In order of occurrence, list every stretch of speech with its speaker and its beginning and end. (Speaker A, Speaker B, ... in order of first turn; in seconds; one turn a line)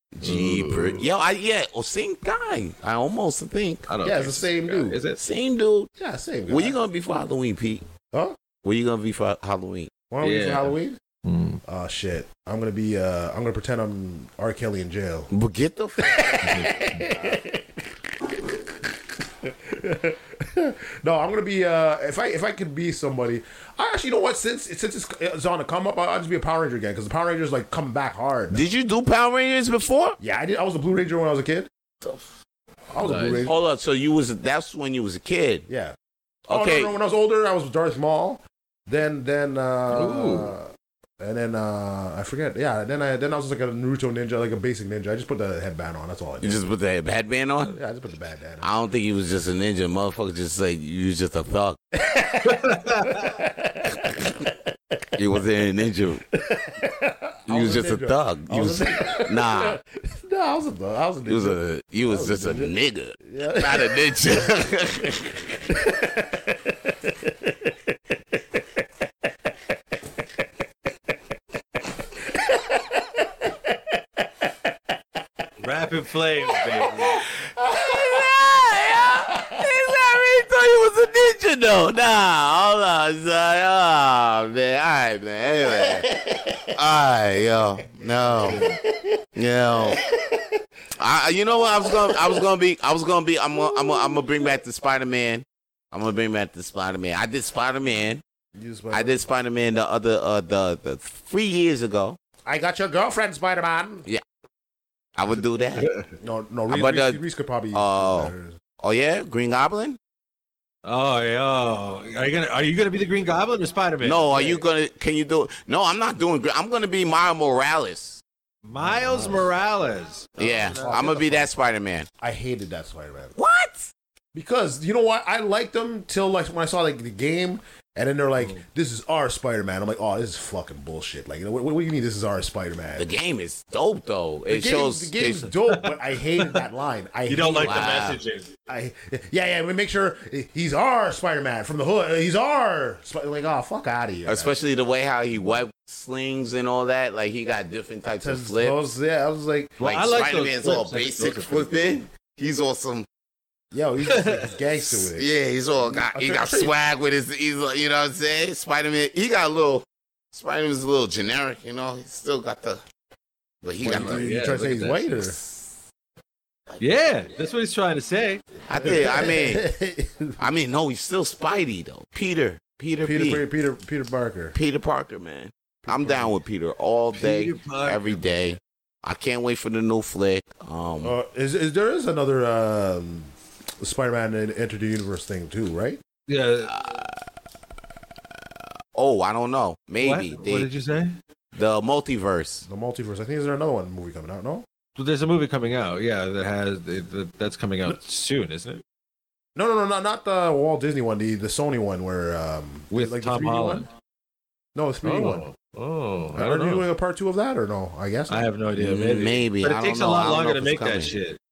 Speaker A: 0.2-3.9
Speaker B: 0.2-1.0
Speaker B: 3.9-5.2
Speaker C: 4.0-5.0
Speaker A: 5.2-5.9
Speaker C: 6.0-6.8
Speaker A: 6.5-7.9
Speaker A: 8.6-9.9
Speaker C: 10.1-11.0
Speaker B: 10.2-11.6
Speaker C: 11.7-15.3
Speaker A: 15.3-17.2
Speaker C: 16.0-17.6
Speaker B: 16.4-17.1
Speaker C: 19.4-28.6
Speaker A: 28.5-30.2
Speaker C: 30.2-31.7
Speaker C: 32.9-33.6
Speaker B: 33.0-33.4
Speaker A: 33.4-35.7
Speaker C: 35.7-36.0
Speaker A: 36.5-36.9
Speaker C: 36.5-46.6
Speaker B: 39.9-40.5
Speaker A: 46.4-47.8
Speaker C: 47.7-48.7
Speaker A: 48.6-51.8
Speaker C: 52.0-55.0
Speaker B: 52.4-53.3
Speaker A: 55.2-56.2
Speaker C: 56.4-61.6
Speaker A: 57.5-59.8
Speaker A: 61.3-65.4
Speaker C: 62.1-62.7
Speaker C: 63.2-64.2
Speaker C: 65.7-67.8
Speaker C: 72.3-73.8
Speaker B: 75.6-77.2
Speaker A: 77.1-86.1
Speaker C: 77.9-78.2
Speaker C: 85.7-86.6
Speaker A: 86.7-88.7
Speaker C: 88.0-90.6
Speaker A: 89.4-90.0
Speaker A: 91.0-98.2
Speaker C: 91.7-92.5
Speaker C: 93.5-94.5
Speaker C: 98.5-99.2
Speaker A: 98.9-102.2
Speaker C: 102.5-104.0
Speaker A: 105.2-105.9
Speaker B: 105.8-106.1
Speaker C: 106.2-108.6
Speaker A: 106.7-107.2
Speaker A: 107.7-110.0
Speaker B: 110.8-114.6
Speaker A: 114.0-118.2
Speaker B: 118.7-121.1
Speaker C: 118.8-119.5
Speaker A: 120.4-122.1
Speaker C: 120.7-121.5
Speaker C: 122.2-123.3
Speaker A: 123.4-123.9
Speaker C: 124.3-133.1
Speaker B: 128.4-128.7
Speaker A: 133.0-135.5
Speaker C: 134.5-138.1
Speaker B: 135.7-136.6
Speaker B: 137.3-138.5
Speaker A: 137.6-138.2
Speaker C: 138.7-144.5
Speaker A: 144.3-148.8
Speaker C: 148.2-149.8
Speaker B: 149.8-151.7
Speaker A: 149.8-153.1
Speaker C: 153.7-155.3
Speaker B: 154.1-154.5
Speaker A: 154.8-162.8
Speaker C: 155.8-156.7
Speaker A: 163.6-164.3
Speaker C: 163.8-165.4
Speaker B: 163.8-165.2
Speaker A: 165.2-165.7
Speaker B: 166.8-169.2
Speaker A: 168.7-169.6
Speaker C: 168.7-170.4
Speaker A: 170.4-173.4
Speaker C: 173.0-174.6
Speaker A: 174.5-181.2
Speaker C: 175.8-176.4
Speaker B: 177.1-178.3
Speaker C: 181.0-186.0
Speaker B: 186.3-186.8
Speaker A: 186.7-187.1
Speaker A: 188.9-190.7
Speaker B: 190.0-191.2
Speaker A: 191.5-192.7
Speaker C: 192.7-194.7
Speaker B: 195.0-198.8
Speaker C: 199.6-203.9
Speaker B: 202.9-203.9
Speaker C: 204.8-205.4
Speaker B: 205.0-206.9
Speaker C: 206.3-208.5
Speaker B: 208.3-211.4
Speaker A: 208.8-211.1